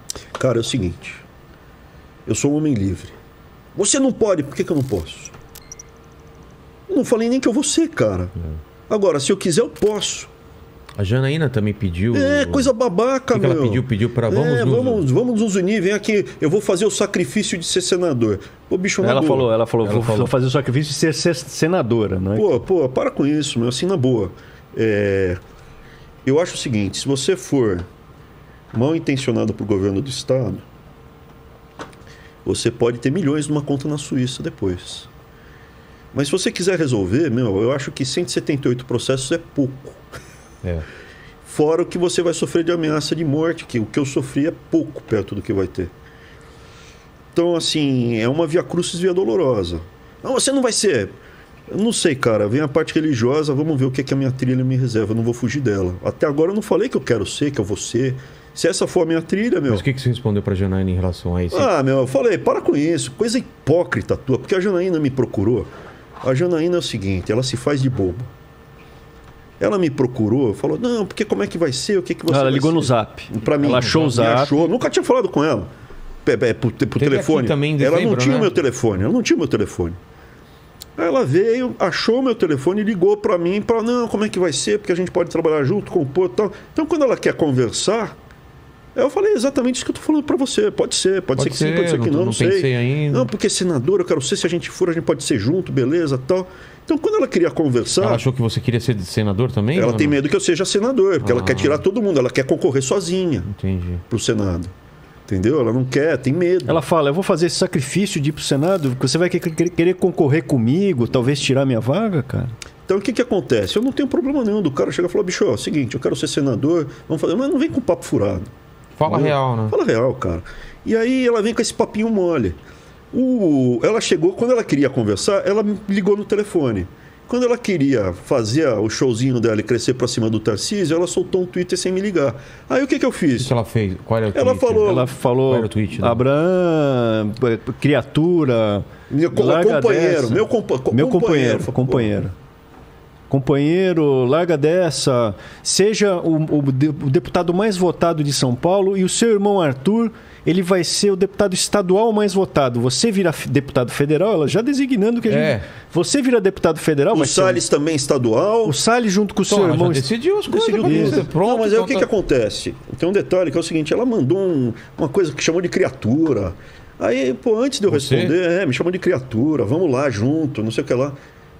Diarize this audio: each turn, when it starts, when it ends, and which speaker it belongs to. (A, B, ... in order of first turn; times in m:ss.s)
0:00.4-0:01.2 A
0:02.3-0:03.2 A
0:03.8-0:05.4 A
0:06.9-0:08.3 A
0:08.9-0:10.3 A
0:11.0-0:12.7 B
0:12.1-0:19.5 A
0:13.3-0:15.1 B
0:19.0-0:22.6 C
0:19.8-0:20.3 B
0:22.4-0:25.4 A
0:26.2-0:27.9 A
0:28.7-0:30.6 A
0:32.4-0:35.1 A
0:36.1-0:40.0 A
0:41.4-0:45.9 A
0:47.3-0:51.1 A
0:51.7-0:59.9 A
0:59.7-1:01.7 B
1:01.5-1:05.7 A
1:06.2-1:08.3 A
1:09.6-1:15.7 A
1:12.3-1:14.6 C
1:13.6-1:14.1 B
1:16.2-1:20.0 A
1:17.0-1:18.6 B
1:21.0-1:28.2 A
1:29.0-1:38.2 A
1:31.4-1:33.3 B
1:38.0-1:40.2 B
1:39.7-1:43.5 A
1:41.2-1:41.8 B
1:43.5-1:44.0 B
1:44.1-1:44.7 A
1:45.3-1:46.8 A
1:46.7-1:52.5 C
1:52.9-1:58.5 A
1:59.0-1:59.8 B
1:59.1-2:02.6 A
2:03.1-2:13.5 A
2:13.4-2:16.2 B
2:14.3-2:15.1 A
2:14.8-2:22.3 C
2:19.1-2:22.2 A
2:23.3-2:37.6 C
2:35.3-2:35.7 B
2:37.1-2:38.8 A
2:38.6-2:40.1 C
2:39.5-2:42.1 B
2:40.5-2:51.2 A
2:40.8-2:41.3 C
2:47.9-2:48.4 B